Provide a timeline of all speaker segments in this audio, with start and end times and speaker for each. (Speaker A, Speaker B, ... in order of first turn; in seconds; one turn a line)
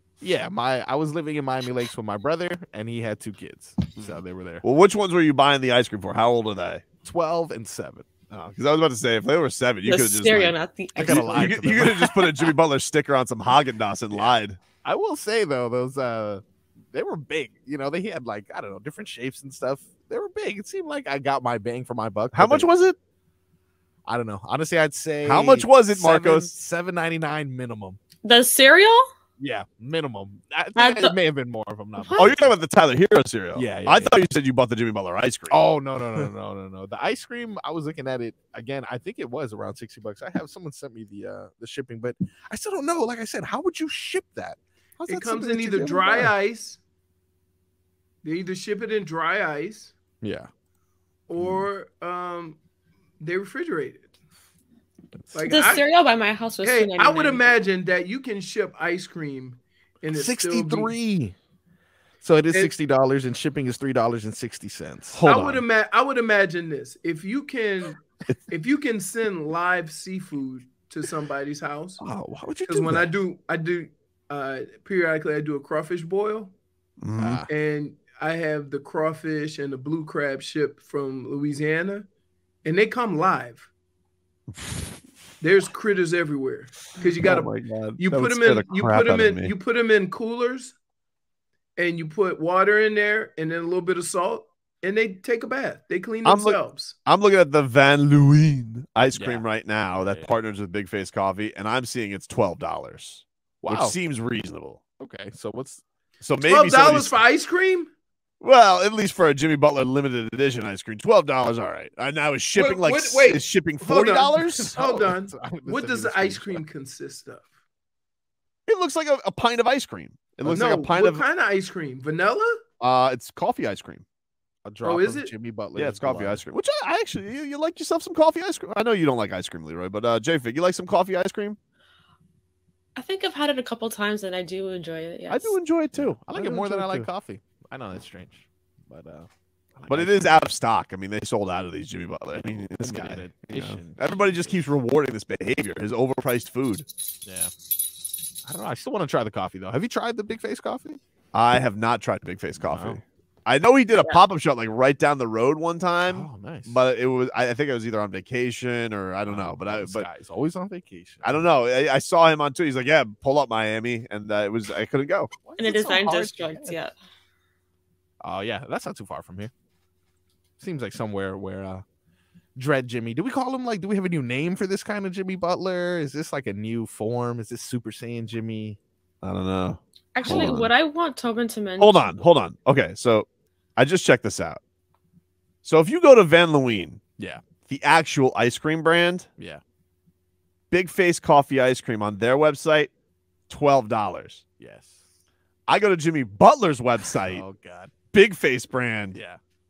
Speaker A: 0.2-4.6
Speaker B: 4.0-6.8
Speaker A: 7.0-8.1
Speaker B: 8.3-14.6
Speaker C: 9.9-12.5
Speaker A: 11.0-12.1
Speaker A: 14.1-22.7
Speaker B: 22.3-23.0
Speaker A: 24.1-28.0
Speaker B: 25.2-26.5
Speaker C: 28.2-29.1
Speaker A: 29.4-32.5
Speaker C: 30.8-31.1
Speaker C: 32.0-32.4
Speaker B: 32.2-35.6
Speaker A: 33.5-34.1
Speaker A: 35.5-46.3
Speaker D: 45.1-46.8
Speaker D: 48.2-49.9
Speaker A: 50.2-50.5
Speaker D: 51.3-52.6
Speaker D: 53.2-54.0
Speaker D: 55.3-55.8
Speaker C: 55.5-57.5
Speaker D: 56.6-61.0
Speaker A: 60.1-61.4
Speaker A: 62.2-65.2
Speaker B: 65.1-65.6
Speaker D: 65.2-72.0
Speaker A: 72.0-73.1
Speaker D: 72.7-76.5
Speaker B: 77.0-77.4
Speaker A: 77.2-77.5
Speaker D: 77.5-82.1
Speaker D: 82.6-83.7
Speaker B: 84.5-85.0
Speaker D: 85.4-90.8
Speaker B: 87.2-89.5
Speaker D: 91.8-97.0
Speaker B: 96.2-104.8
Speaker A: 99.1-100.3
Speaker A: 103.6-104.0
Speaker A: 105.0-105.8
Speaker B: 106.2-107.2
Speaker D: 106.4-107.9
Speaker B: 108.4-114.8
Speaker D: 112.5-117.5
Speaker A: 114.5-116.6
Speaker B: 118.7-121.2
Speaker D: 120.5-122.6
Speaker B: 122.8-124.0
Speaker A: 124.7-126.4
Speaker D: 124.8-125.3
Speaker B: 125.8-131.6
Speaker C: 133.0-135.6
Speaker B: 135.3-137.1
Speaker A: 135.9-140.4
Speaker B: 139.9-146.9
Speaker A: 142.4-144.6
Speaker A: 147.2-147.5
Speaker A: 148.4-151.0
Speaker B: 151.3-160.1
Speaker A: 152.6-153.0
Speaker A: 156.1-156.8
Speaker A: 159.3-161.4
Speaker B: 161.2-165.3
Speaker A: 165.4-166.8
Speaker C: 165.6-166.9
Speaker A: 168.2-169.5
Speaker A: 170.6-171.8
Speaker A: 172.6-178.8
Speaker B: 179.2-180.7
Speaker C: 180.2-182.2
Speaker A: 180.2-180.6
Speaker B: 181.8-184.6
Speaker B: 185.6-187.0
Speaker B: 187.7-189.3
Speaker B: 190.7-192.9
Speaker B: 193.5-194.4
Speaker A: 194.6-195.0
Speaker B: 195.7-197.4
Speaker A: 197.2-197.9
Speaker B: 198.1-199.2
Speaker A: 199.2-199.4